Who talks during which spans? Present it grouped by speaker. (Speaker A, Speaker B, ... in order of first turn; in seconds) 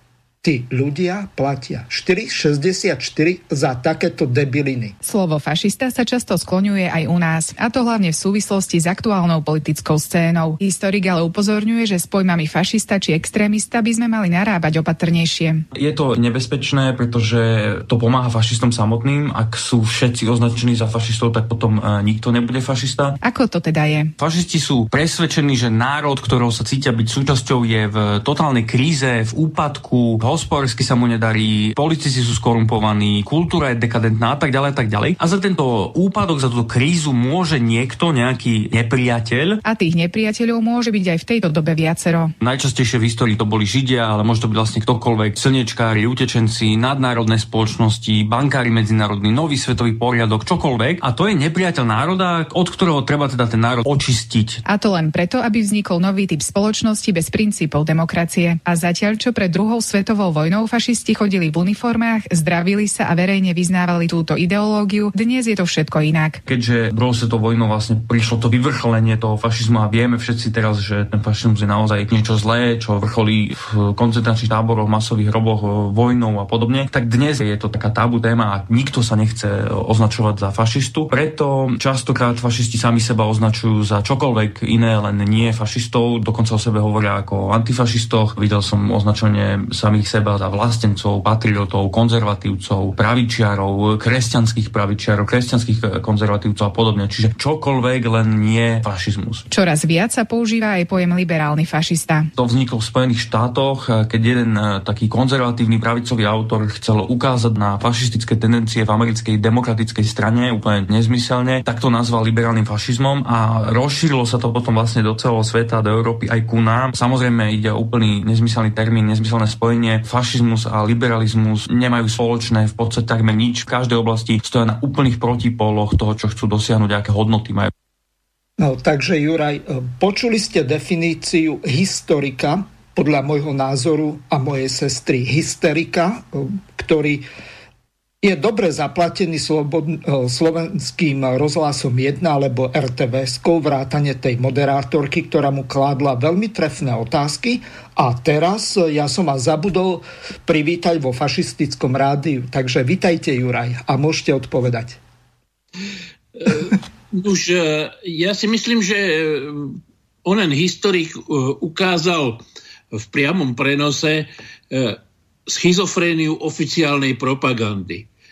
Speaker A: 0.4-5.0, 128.6-137.2, 138.2-155.0
Speaker B: 5.0-15.6, 23.2-24.1, 39.6-42.3, 54.6-66.4, 99.5-102.3
Speaker C: 15.7-23.1, 24.2-39.6, 42.4-54.6, 66.5-99.4, 102.4-127.7
Speaker D: 156.4-162.4, 162.9-168.1